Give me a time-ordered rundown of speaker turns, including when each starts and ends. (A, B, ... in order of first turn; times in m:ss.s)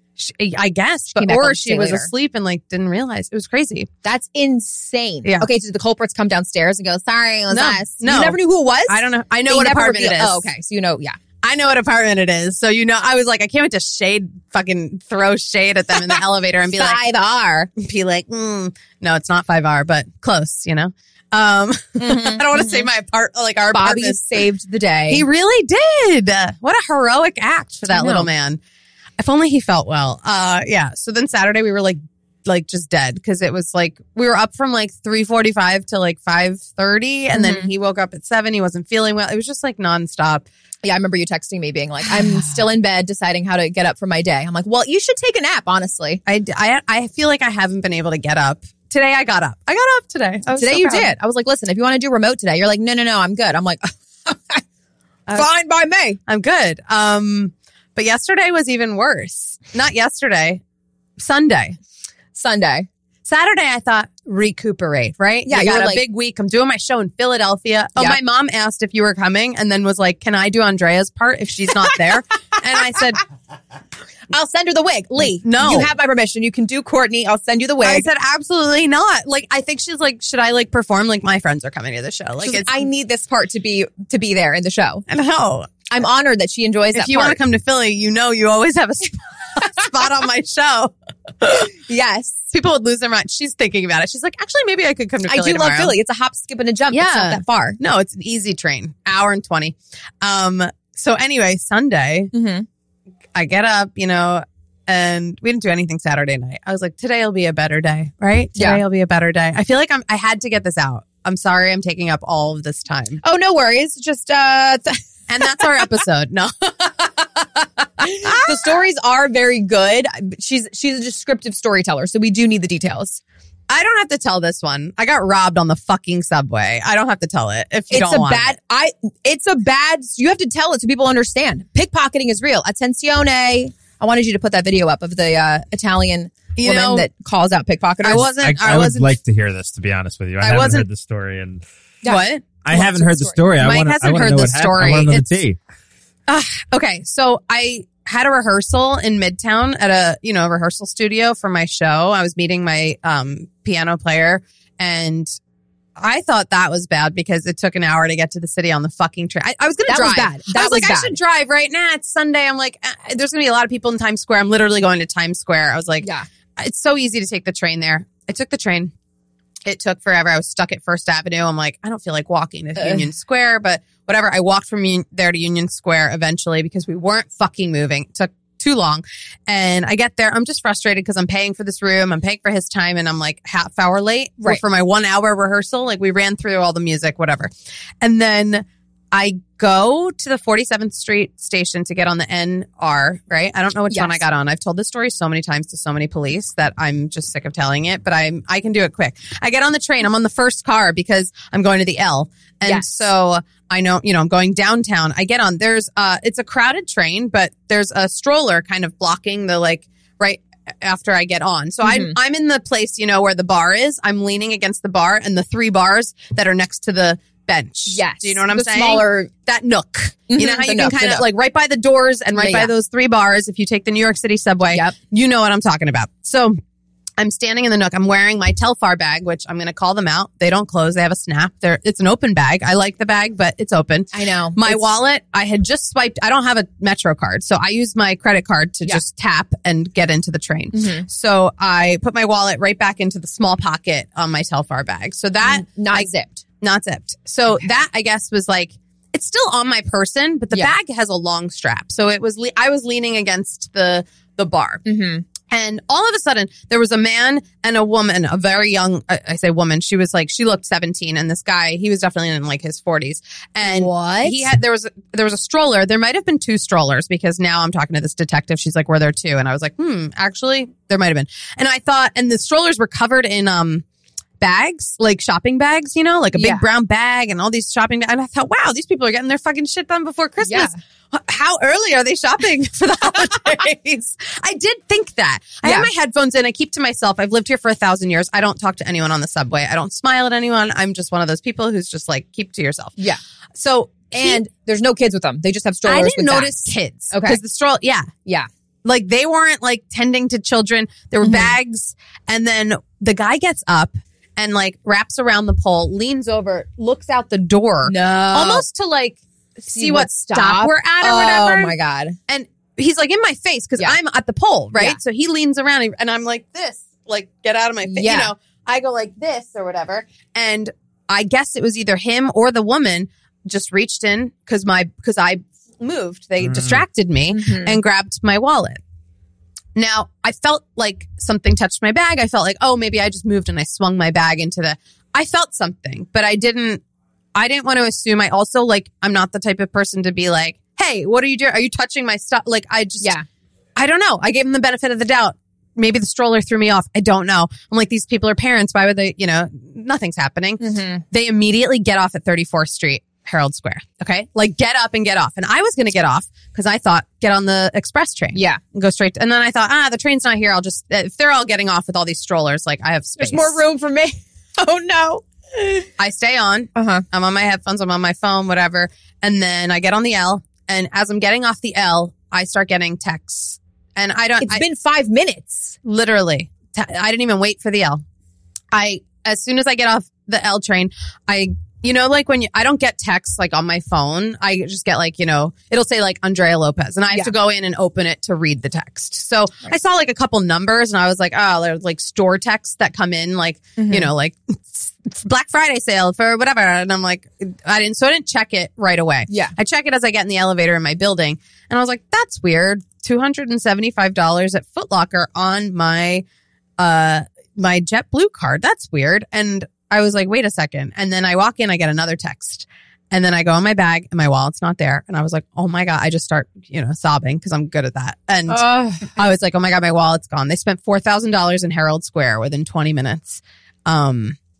0:00.2-0:03.9 A
0:01.1-0:02.1 B
0:04.0-0:11.2 B
0:07.5-0:10.5 A
0:11.4-0:17.0 A
0:16.7-0:17.7 B
0:17.8-0:24.2 A
0:22.0-0:22.9 B
0:23.7-0:25.2 B
0:25.1-0:28.6 A
0:27.9-0:28.3 B
0:29.2-0:40.4 A
0:37.3-0:37.7 B
0:40.8-0:46.2 B
0:42.2-0:42.4 A
0:46.2-0:51.1 A
0:50.5-0:54.6 B
0:55.3-0:56.2 B
0:56.3-1:00.6 A
1:01.2-1:01.7 A
1:02.3-1:02.8 B
1:03.2-1:13.2 A
1:05.4-1:06.0 B
1:14.3-1:18.1 B
1:15.4-1:15.9 A
1:17.8-1:22.8 A
1:22.4-1:25.0 B
1:25.1-1:25.7 A
1:25.9-1:27.4 B
1:26.9-1:31.7 A
1:31.9-1:32.5 B
1:32.5-1:35.9 A
1:35.2-1:37.8 B
1:36.9-1:42.3 A
1:42.3-1:42.6 B
1:43.3-1:53.2 A
1:48.6-1:48.8 B
1:53.2-1:55.8 B
1:55.3-1:57.2 A
1:58.0-2:03.2 B
1:58.0-1:58.8 A
2:03.7-2:08.5 A
2:07.9-2:18.3 B
2:16.6-2:17.1 A
2:18.0-2:19.1 A
2:18.4-2:21.6 C
2:20.4-2:20.9 A
2:22.0-2:23.4 B
2:22.0-2:22.4 A
2:22.6-2:25.6 C
2:23.6-2:25.3 A
2:26.3-2:35.3 A
2:36.0-2:48.9 A
2:39.8-2:41.1 B
2:49.6-3:46.6 A
2:52.8-2:53.0 B
3:13.9-3:14.2 B
3:22.6-3:22.9 B
3:31.8-3:32.2 B
3:37.9-3:39.3 B
3:40.3-3:41.2 B
3:42.4-3:42.7 B
3:44.7-3:44.9 B
3:47.2-4:14.8 A
3:54.1-3:54.8 B
4:00.7-4:01.0 B
4:05.4-4:06.4 B
4:14.8-4:15.2 B
4:15.5-4:33.8 A
4:23.6-4:24.5 B
4:34.4-4:53.0 A
4:36.3-4:36.6 B
4:40.4-4:40.8 B
4:53.5-4:54.4 A
4:54.1-4:57.4 B
4:55.8-4:58.1 A
4:58.8-5:11.7 A
5:01.2-5:01.6 B
5:07.8-5:08.6 B
5:09.7-5:12.2 B
5:12.3-5:28.8 A
5:17.8-5:18.3 B
5:27.3-5:27.8 B
5:29.7-5:36.8 A
5:37.3-5:43.1 A
5:43.8-6:03.6 A
5:50.6-5:51.0 B
5:58.3-5:58.6 B
6:03.2-6:05.9 B
6:06.0-6:14.6 A
6:06.7-6:07.0 B
6:14.4-6:15.8 B
6:15.8-6:18.0 A
6:18.7-6:46.2 A
6:33.8-6:34.1 B
6:39.3-6:39.5 B
6:46.8-7:04.4 A
6:58.5-6:59.1 B